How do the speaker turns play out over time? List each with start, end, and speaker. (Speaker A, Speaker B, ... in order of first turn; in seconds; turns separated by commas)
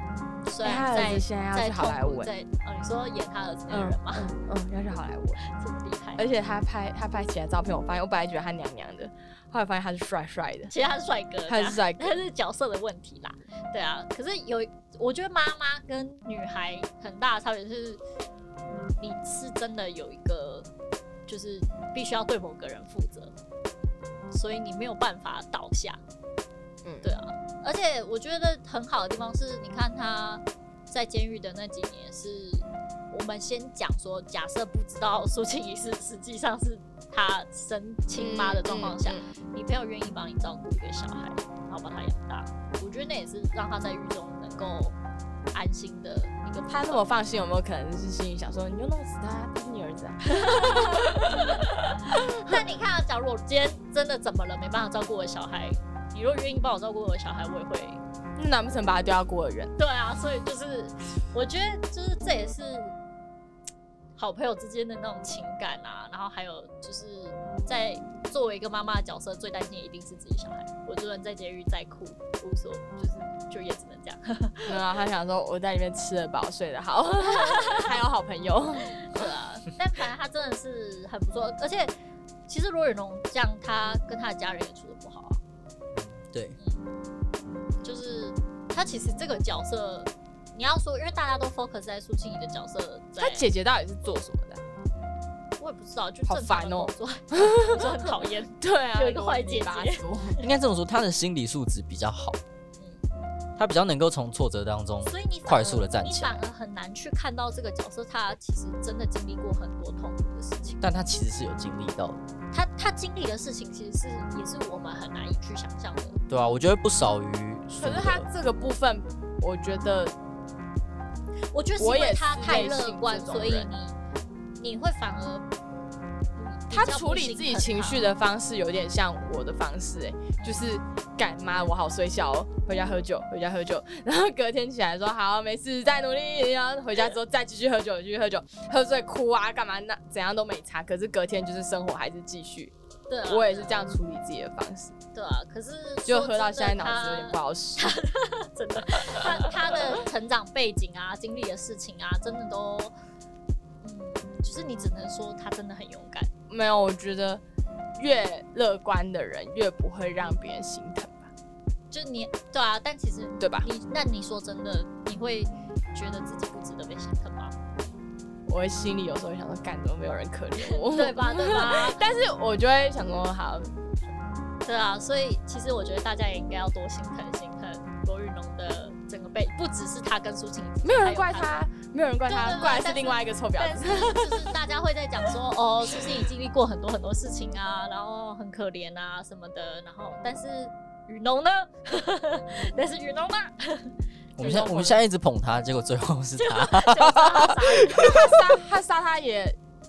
Speaker A: 0.4-4.3, Speaker B: 0.6-2.3, Speaker B: 3.7-5.4, Speaker A: 5.4-6.3, Speaker B: 6.2-10.7, Speaker A: 10.7-18.0, Speaker B: 11.5-12.2, Speaker A: 18.8-20.7, Speaker A: 21.3-23.3, Speaker A: 24.3-26.0, Speaker B: 26.8-27.1, Speaker A: 27.0-45.0, Speaker B: 38.2-39.2, Speaker A: 45.5-47.0, Speaker B: 46.7-52.6, Speaker A: 50.3-58.0, Speaker B: 58.4-59.7, Speaker A: 59.8-63.0, Speaker A: 64.2-74.8, Speaker B: 74.7-79.0, Speaker A: 77.2-77.9, Speaker A: 78.9-81.9, Speaker A: 82.5-85.4, Speaker C: 85.9-86.6, Speaker A: 86.6-86.9, Speaker A: 87.8-93.4, Speaker B: 93.2-94.6, Speaker A: 95.6-100.4, Speaker B: 96.3-98.1, Speaker B: 98.6-100.4, Speaker C: 100.4-102.4, Speaker C: 103.6-106.4, Speaker A: 105.1-110.8, Speaker C: 110.8-112.2, Speaker A: 112.5-116.2, Speaker C: 116.3-118.3, Speaker B: 117.8-120.1, Speaker A: 121.5-124.0, Speaker B: 121.8-123.7, Speaker A: 124.6-125.5, Speaker A: 126.4-128.0, Speaker B: 126.7-142.7, Speaker A: 143.1-143.8, Speaker B: 143.3-144.9, Speaker A: 145.1-152.9, Speaker B: 146.1-148.0, Speaker B: 149.0-149.7, Speaker A: 153.8-156.3, Speaker B: 156.5-157.4, Speaker B: 157.9-161.3, Speaker A: 161.9-167.5, Speaker B: 163.4-163.7, Speaker B: 168.5-173.9, Speaker A: 170.6-172.0, Speaker A: 174.6-181.6, Speaker B: 180.8-184.5, Speaker A: 182.3-193.9, Speaker C: 194.4-198.2, Speaker B: 194.4-195.0, Speaker A: 196.4-198.3, Speaker B: 197.9-199.6